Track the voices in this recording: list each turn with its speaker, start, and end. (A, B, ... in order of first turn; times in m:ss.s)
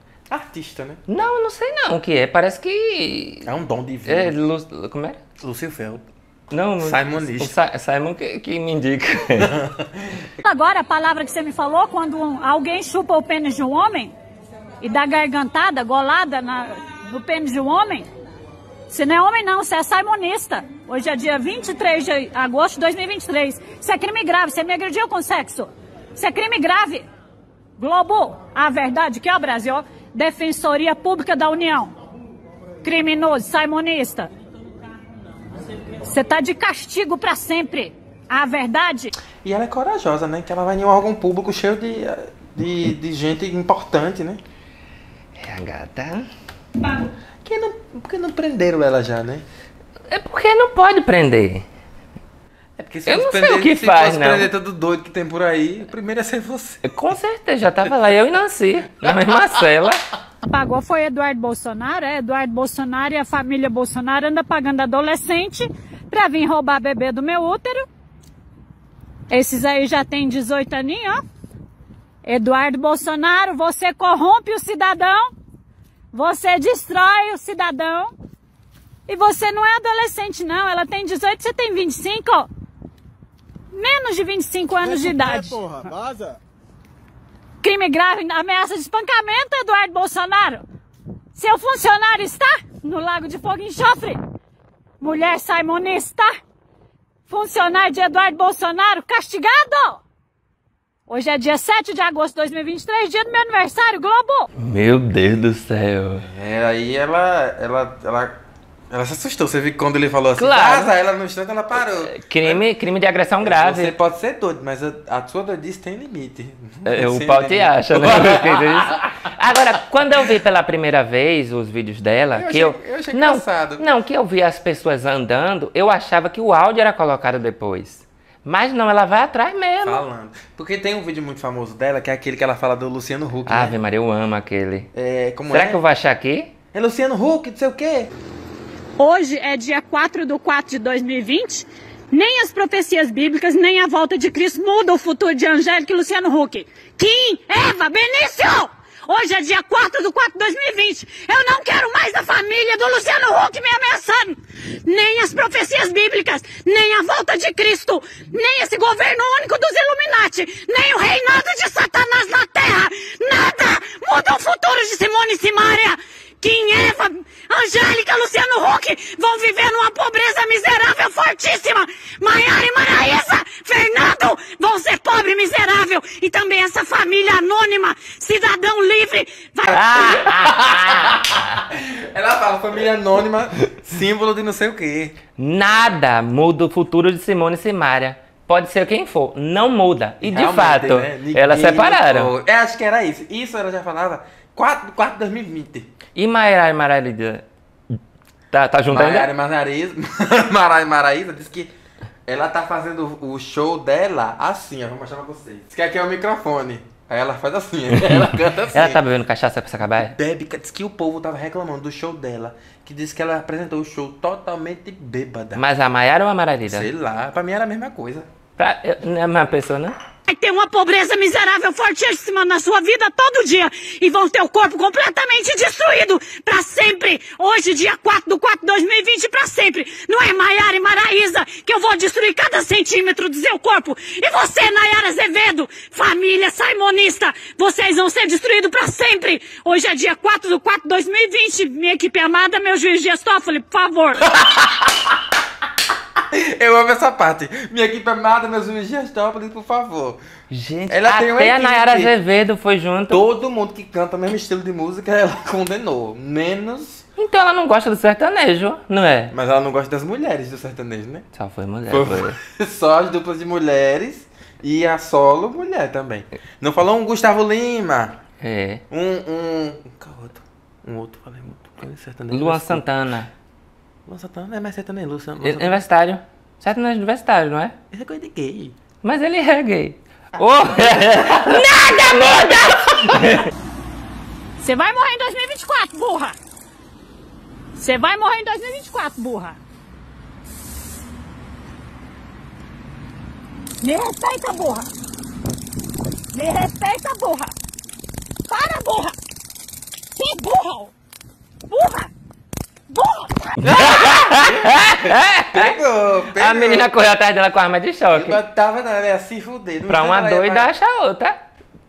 0:00.3-0:01.0 A
0:01.1-0:03.5 B
0:03.4-0:04.3 A
0:04.1-0:05.2 B
0:05.4-0:06.1 A
0:06.5-0:09.5 B
0:06.8-0:07.5 A
0:09.4-0:10.2 A
0:10.4-0:14.1 C
0:14.8-0:18.1 C
0:18.9-0:27.1 C
0:27.8-0:31.9 C
0:32.8-0:34.3 C
0:36.0-0:39.1 C
0:39.4-0:44.4 A
0:45.4-0:46.3 B
0:47.4-0:49.4 A
0:50.1-0:51.6 B
0:52.8-0:56.8 A
0:53.1-0:54.5 B
0:56.8-1:00.0 B
1:00.4-1:07.8 C
1:09.3-1:11.2 C
1:12.2-1:15.2 C
1:16.1-1:18.1 C
1:19.1-1:22.5 C
1:23.7-1:25.9 C
1:27.6-1:30.6 C
1:31.3-1:34.2 C
1:35.0-1:36.3 C
1:37.3-1:40.0 C
1:41.1-1:44.5 C
1:44.6-1:46.3 B
1:46.2-1:48.3 A
1:48.9-1:52.6 A
1:50.4-1:50.9 B
1:51.8-1:53.9 B
1:53.4-1:59.1 A
1:56.8-2:10.0 B
2:02.3-2:03.8 A
2:09.8-2:13.8 A
2:13.5-2:14.9 B
2:14.9-2:15.8 A
2:15.5-2:16.5 B
2:16.7-2:18.1 A
2:19.0-2:59.7 C
2:59.7-3:05.2 A
2:59.7-3:01.6 B
3:05.4-3:12.3 B
3:10.2-3:15.9 A
3:16.2-3:17.4 B
3:18.5-3:19.3 B
3:18.9-3:21.7 A
3:22.3-3:29.0 A
3:27.9-3:30.1 B
3:30.0-3:35.6 A
3:35.6-3:36.9 B
3:36.7-3:38.3 A
3:38.6-3:39.9 B
3:40.2-4:04.2 C
4:04.4-4:04.9 A
4:06.3-4:10.2 A
4:10.5-4:13.2 B
4:10.9-4:12.1 A
4:13.1-4:17.0 A
4:17.2-4:19.3 B
4:19.3-4:21.2 A
4:21.4-4:22.4 B
4:21.9-4:28.2 A
4:28.4-4:28.8 B
4:28.9-4:32.8 A
4:32.3-4:33.3 B
4:34.1-4:35.8 A
4:35.4-4:37.8 B
4:37.9-4:38.8 A
4:39.0-4:43.5 B
4:44.6-4:46.4 C
4:47.8-4:49.6 C
4:53.8-4:54.9 C
4:56.3-4:57.5 C
4:58.5-4:59.1 C
5:00.2-5:00.9 C
5:01.7-5:02.1 C
5:02.9-5:03.5 C
5:03.6-5:06.9 A
5:03.6-5:05.8 B
5:06.3-5:08.4 B
5:08.1-5:10.7 A
5:09.9-5:11.4 B